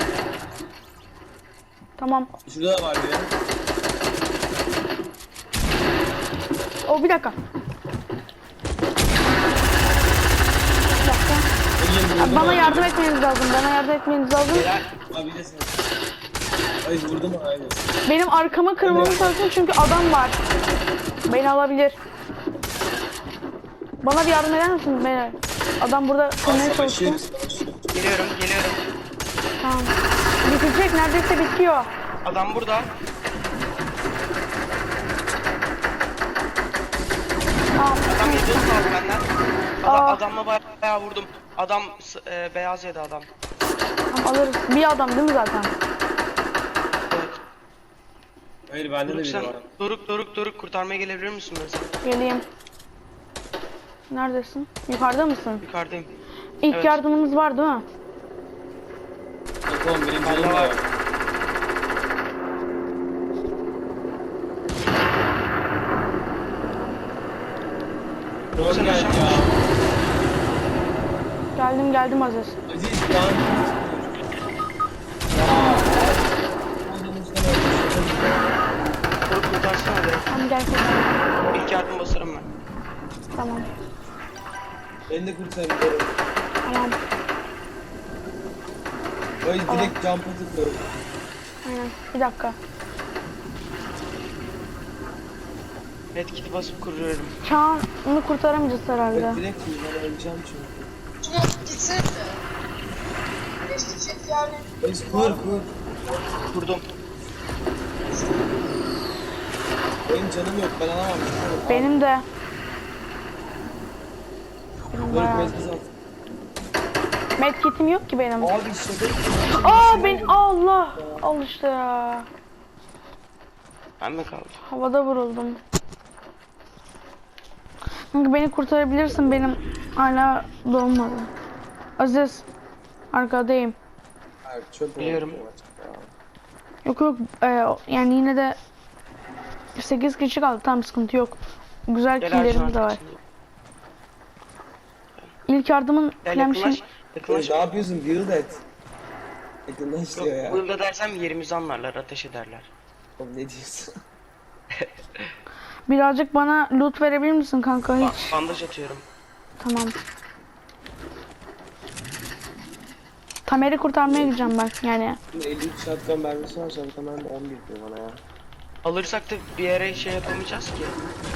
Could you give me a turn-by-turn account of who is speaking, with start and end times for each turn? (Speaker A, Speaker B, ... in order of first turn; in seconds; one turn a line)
Speaker A: 2.0-2.3
Speaker B: 2.5-3.3
Speaker A: 6.9-7.4
Speaker A: 11.0-11.4
Speaker B: 11.8-12.9
Speaker A: 12.2-14.7
Speaker C: 14.5-14.9
Speaker B: 15.1-15.8
Speaker B: 16.8-17.9
Speaker A: 18.1-20.4
Speaker B: 18.8-19.4
Speaker A: 21.3-22.0
Speaker A: 24.0-27.2
Speaker B: 26.4-27.8
Speaker C: 27.9-28.8
Speaker A: 29.6-31.9
Speaker C: 32.2-32.9
Speaker A: 37.8-38.7
Speaker C: 38.1-43.3
Speaker A: 39.8-40.2
Speaker A: 44.1-45.7
Speaker C: 47.1-47.4
Speaker B: 48.7-49.6
Speaker C: 49.1-51.9
Speaker A: 52.0-52.5
Speaker A: 54.1-55.6
Speaker C: 55.6-56.1
Speaker A: 56.6-57.8
Speaker C: 56.7-57.0
Speaker B: 59.7-60.9
Speaker C: 60.2-60.8
Speaker C: 68.5-69.5
Speaker B: 68.5-69.5
Speaker A: 71.5-72.6
Speaker B: 72.7-74.3
Speaker B: 75.3-78.6
Speaker C: 79.3-80.3
Speaker A: 80.3-81.2
Speaker C: 81.5-82.5
Speaker A: 83.3-83.7
Speaker B: 85.1-86.1
Speaker A: 86.6-87.0
Speaker B: 89.4-90.9
Speaker A: 89.7-90.0
Speaker A: 91.6-92.5
Speaker C: 96.1-97.4
Speaker A: 97.4-99.4
Speaker B: 99.1-100.8
Speaker D: 101.2-102.4
Speaker D: 103.7-104.7
Speaker B: 104.8-105.7
Speaker C: 106.5-106.8
Speaker B: 110.0-112.0
Speaker A: 111.7-112.2
Speaker A: 114.9-115.5
Speaker B: 115.1-115.9
Speaker A: 117.4-118.5
Speaker B: 118.4-120.4
Speaker A: 119.6-122.3
Speaker B: 121.0-121.2
Speaker C: 124.0-124.6
Speaker A: 124.6-125.6
Speaker A: 128.1-131.3
Speaker A: 132.0-132.4
Speaker A: 133.1-133.8
Speaker B: 134.4-136.1
Speaker C: 135.0-135.4
Speaker A: 136.8-138.6
Speaker A: 139.8-143.0
Speaker C: 142.2-143.2
Speaker A: 145.5-146.8
Speaker C: 146.2-147.7
Speaker B: 147.3-148.6
Speaker B: 149.7-150.6
Speaker C: 150.1-152.7
Speaker B: 153.2-153.9
Speaker C: 154.8-155.3
Speaker A: 155.9-158.3
Speaker C: 158.0-159.0
Speaker A: 159.6-159.9
Speaker A: 163.5-165.2
Speaker B: 164.1-164.5
Speaker B: 165.3-168.2
Speaker C: 168.8-171.0